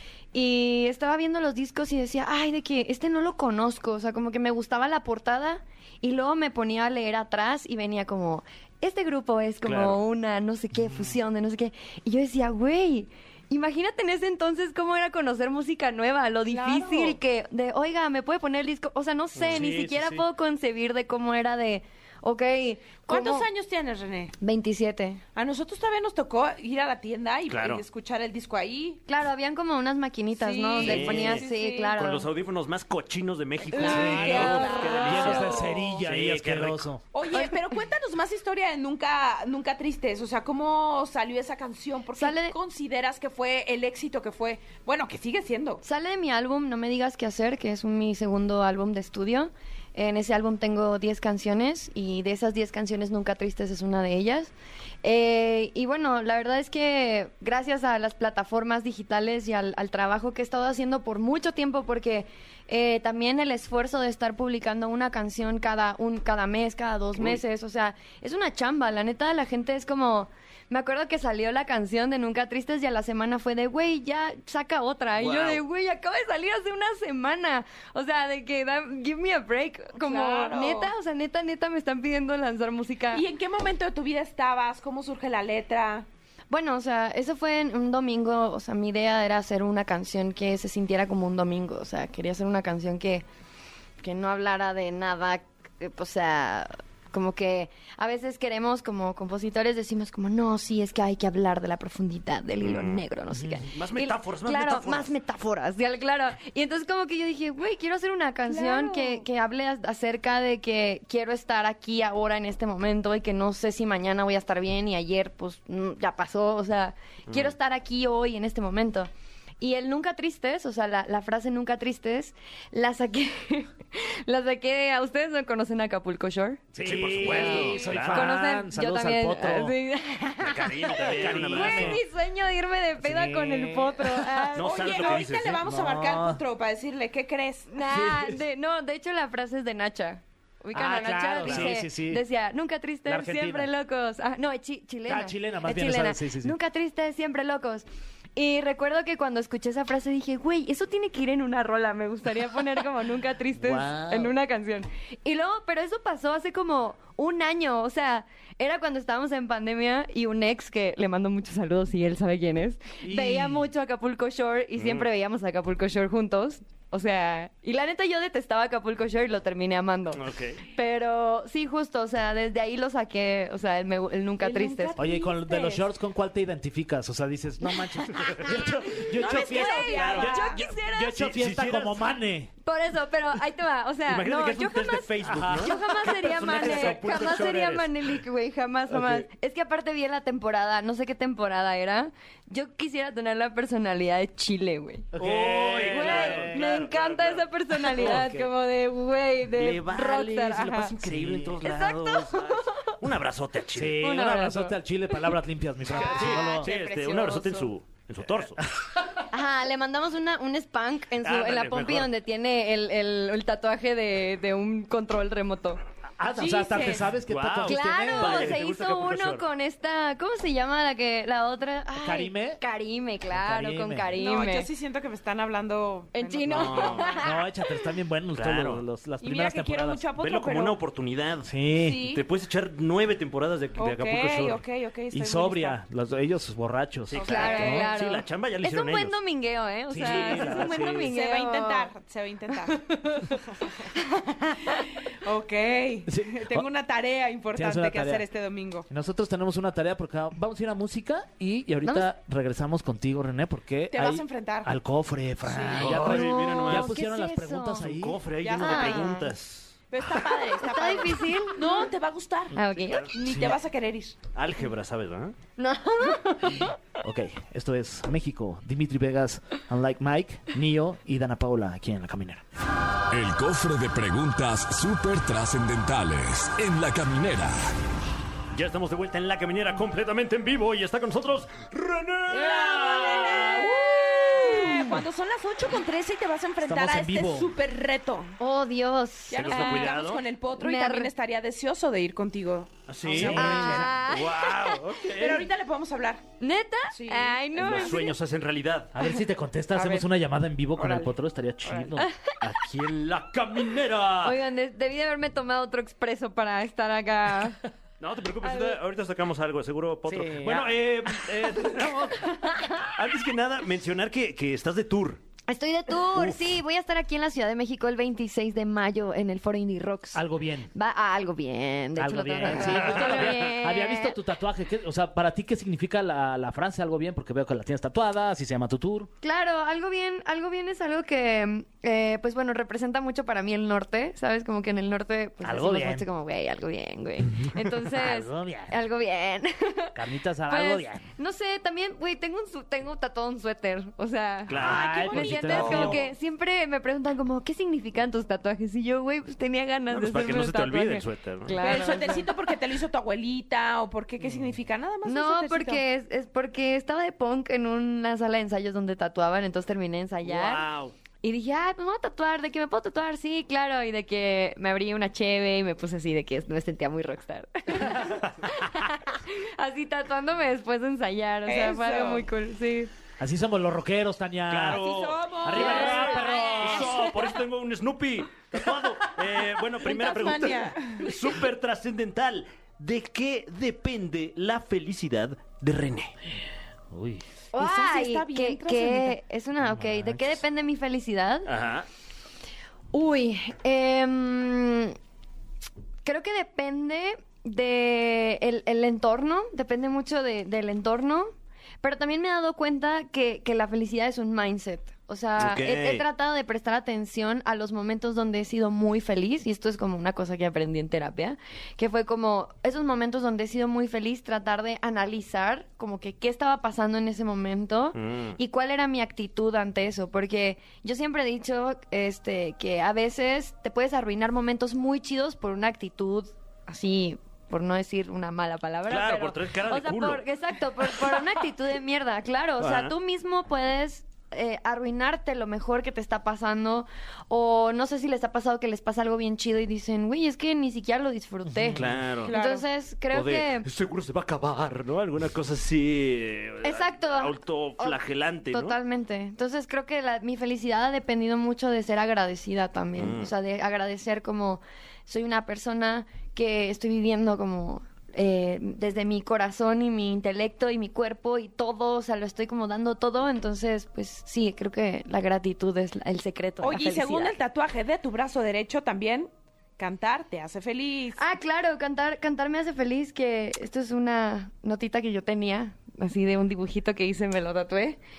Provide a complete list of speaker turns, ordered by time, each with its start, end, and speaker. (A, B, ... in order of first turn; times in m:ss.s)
0:00.3-0:23.5 A
0:09.6-0:10.0 B
0:16.5-0:17.2 C
0:19.4-0:20.2 B
0:19.5-0:20.2 D
0:23.1-0:24.4 C
0:24.4-0:25.2 A
0:25.4-0:29.0 C
0:27.5-0:27.8 B
0:29.1-0:32.3 A
0:30.4-0:32.0 C
0:30.8-0:36.9 B
0:33.7-0:36.0 C
0:33.7-0:35.6 A
0:33.8-0:37.0 D
0:37.1-0:45.8 C
0:37.3-0:37.6 A
0:42.2-0:42.6 A
0:45.8-1:23.2 A
1:15.2-1:15.6 B
1:20.0-1:20.9 C
1:23.1-1:26.1 C
1:26.5-1:33.2 A
1:34.0-2:06.6 A
1:42.6-1:43.0 B
1:43.3-1:43.6 D
1:43.7-1:45.1 B
1:48.5-1:49.2 C
1:57.3-1:57.6 B
2:06.7-2:09.8 D
2:06.8-2:08.3 B
2:07.2-2:15.1 A
2:07.5-2:07.9 C
2:10.4-2:12.0 B
2:10.9-2:12.0 D
2:13.0-2:14.6 D
2:14.6-2:15.6 B
2:14.6-2:17.7 C
2:15.3-2:16.4 D
2:17.7-2:27.8 A
2:17.8-2:18.4 D
2:20.7-2:22.2 D
2:21.4-2:21.8 B
2:23.1-2:23.7 D
2:25.0-2:26.6 D
2:28.4-2:55.1 A
2:33.6-2:34.3 D
2:43.0-2:43.7 D
2:44.8-2:45.1 B
2:50.1-2:50.6 B
2:54.4-2:55.8 C
2:55.0-3:02.5 D
2:57.8-3:01.2 A
2:59.1-3:00.6 C
3:01.0-3:02.1 B
3:02.6-3:15.1 A
3:04.1-3:07.9 B
3:05.3-3:07.6 D
3:09.0-3:09.2 D
3:15.1-3:16.9 D
3:15.2-3:18.4 B
3:15.8-3:20.9 A
3:17.9-3:18.5 D
3:19.5-3:24.0 B
3:21.0-3:21.6 D
3:21.6-3:22.9 A
3:23.8-3:26.7 D
3:24.0-3:25.3 A
3:25.9-3:27.7 C
3:26.0-3:28.6 B
3:29.3-3:35.8 A
3:31.2-3:32.1 B
3:36.2-3:38.6 D
3:36.4-3:37.1 C
3:37.3-3:39.5 B
3:37.6-3:44.7 A
3:42.0-3:42.6 D
3:43.3-3:44.2 D
3:44.2-3:47.2 C
3:46.1-3:47.4 A
3:46.5-3:47.1 B
3:47.2-3:50.0 D
3:48.3-3:48.8 B
3:49.2-3:50.8 C
3:50.2-3:54.6 B
3:51.4-3:52.0 D
3:51.8-3:52.2 C
3:53.8-3:55.8 C
3:55.1-3:57.9 D
3:57.1-3:59.2 B
3:57.2-3:57.9 C
3:57.2-4:01.9 A
3:59.9-4:01.1 D
4:00.0-4:00.7 B
4:01.1-4:02.8 C
4:02.7-4:03.4 A
4:03.4-4:03.9 C
4:03.9-4:04.8 A
4:04.7-4:08.9 C
4:06.1-4:06.7 D
4:07.5-4:08.2 D
4:08.9-4:18.2 D
4:13.9-4:14.7 C
4:15.5-4:16.0 C
4:15.7-4:17.0 B
4:16.0-4:17.9 A
4:17.8-4:19.8 B
4:18.4-4:19.2 C
4:18.6-4:19.3 A
4:19.9-4:24.2 C
4:20.6-4:21.9 A
4:22.5-4:23.1 A
4:22.8-4:23.1 B
4:23.3-4:23.6 D
4:24.3-4:25.4 B
4:25.6-4:26.7 A
4:27.0-4:32.4 D
4:33.1-4:37.7 E
4:38.5-4:43.6 B
4:42.3-4:48.4 C
4:42.4-4:43.8 D
4:44.2-4:44.5 A
4:46.6-4:47.5 D
4:48.4-4:50.0 A
4:49.3-4:53.8 C
4:49.4-4:50.2 B
4:50.5-4:51.1 A
4:52.9-4:55.5 B
4:53.1-4:53.9 D
4:53.3-4:54.9 A
4:55.2-4:56.2 C
4:56.4-4:58.2 A
4:56.9-4:57.7 C
4:57.6-4:58.9 B
4:58.9-5:02.1 D
4:59.7-5:00.1 C
5:00.8-5:01.1 C
5:01.6-5:01.9 C
5:02.0-5:02.2 A
5:02.4-5:04.4 B
5:04.2-5:07.6 A
5:08.0-5:15.2 B
5:08.4-5:08.8 A
5:10.1-5:10.7 D
5:12.4-5:12.8 A
5:15.5-5:24.2 A
5:16.1-5:16.5 B
5:20.1-5:20.7 D
5:22.0-5:29.1 D
5:22.5-5:23.5 B
5:29.2-5:52.3 A
5:35.4-5:36.1 D
5:37.8-5:38.8 D
5:40.0-5:41.1 D
5:44.5-5:46.0 B
5:44.6-5:46.0 D
5:44.6-5:46.0 C
5:49.9-5:51.8 B
5:51.6-5:55.8 C
5:55.0-6:00.7 A
6:00.2-6:00.9 B
6:01.2-6:12.9 A
6:08.0-6:08.3 B
6:11.5-6:12.2 C
6:13.2-6:17.0 D
6:14.5-6:26.1 B
6:14.7-6:16.8 C
6:16.7-6:17.2 A
6:19.8-6:21.1 C
6:26.9-6:27.2 D
6:27.5-6:31.5 A
6:27.5-6:29.2 C
6:29.6-6:30.4 D
6:31.5-6:31.9 B
6:32.9-6:35.0 A
6:36.0-7:23.7 A
6:45.4-6:46.0 B
6:57.9-6:58.4 B
7:08.9-7:10.2 B
7:12.6-7:12.9 B
7:21.5-7:22.0 D
7:21.8-7:22.4 B
7:22.3-7:22.6 C
7:23.1-7:28.8 B
7:26.6-7:28.0 A
7:28.5-7:47.4 A
7:33.0-7:33.3 B
7:46.6-7:51.2 C
7:51.2-7:58.0 A